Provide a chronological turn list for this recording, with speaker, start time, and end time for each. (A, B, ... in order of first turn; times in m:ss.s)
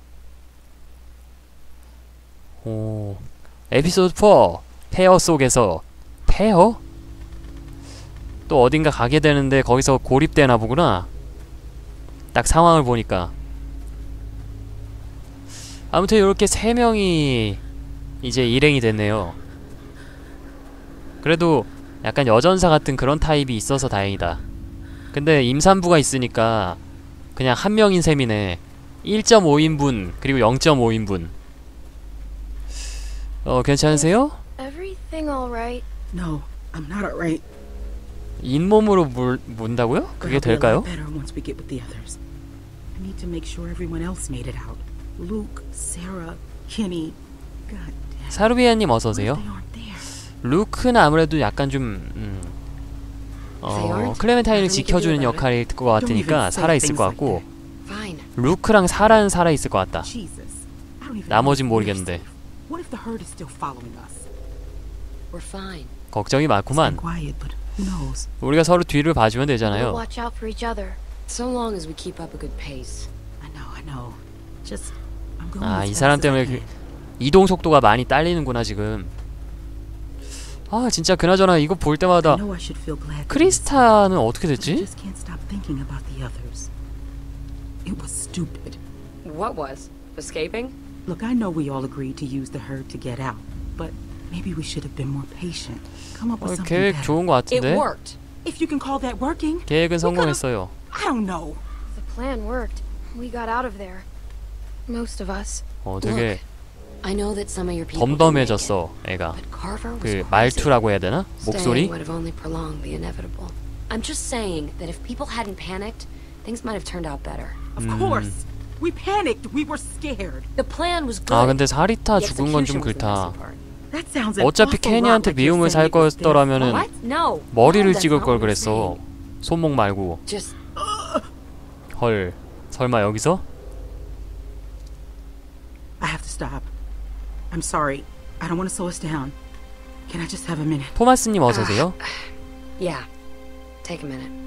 0:02.6-0:06.8 A
0:08.5-0:11.1 A
0:12.3-0:13.3 A
0:15.9-0:17.6 A
0:18.2-0:19.4 A
0:21.2-0:24.4 A
0:25.1-0:26.8 A
0:27.4-0:31.3 A
0:33.4-0:34.4 A
0:33.9-0:35.8 B
0:36.1-0:37.4 C
0:38.4-0:40.9 A
0:40.2-0:42.2 C
0:42.9-0:48.5 C
0:48.3-0:49.4 A
0:49.1-0:50.1 C
0:50.4-0:52.6 A
0:53.6-0:57.4 A
0:53.6-0:55.4 D
0:56.0-0:57.5 C
0:57.8-0:58.3 D
0:58.4-1:00.1 A
1:00.0-1:04.3 C
1:01.3-1:02.2 A
1:05.3-1:05.9 D
1:06.1-1:07.0 A
1:06.7-1:08.3 C
1:08.4-1:10.0 A
1:09.6-1:11.0 B
1:11.3-1:13.1 D
1:13.4-1:16.7 C
1:15.6-1:16.6 A
1:17.2-1:19.1 A
1:20.7-1:22.4 A
1:22.2-1:26.7 C
1:23.3-1:24.9 A
1:27.8-1:28.8 C
1:29.2-1:30.8 D
1:31.0-1:37.2 C
1:36.4-1:37.8 A
1:37.5-1:38.2 D
1:38.4-1:41.6 C
1:39.6-1:40.7 A
1:41.9-1:44.0 B
1:44.9-1:45.6 B
1:45.8-1:46.4 A
1:46.0-1:46.4 D
1:47.0-1:48.8 D
1:47.9-1:49.4 A
1:49.3-1:50.8 D
1:50.0-1:51.9 A
1:51.4-1:57.6 D
1:57.8-2:00.5 C
1:57.8-1:58.4 A
2:00.6-2:03.6 D
2:01.3-2:03.4 A
2:03.9-2:06.9 C
2:04.4-2:06.9 A
2:06.6-2:09.0 D
2:07.5-2:10.2 A
2:10.2-2:10.5 D
2:10.7-2:11.3 C
2:11.9-2:13.4 A
2:16.0-2:16.7 C
2:17.5-2:19.4 C
2:20.1-2:21.0 C
2:20.9-2:22.0 A
2:21.5-2:23.1 D
2:23.8-2:24.3 D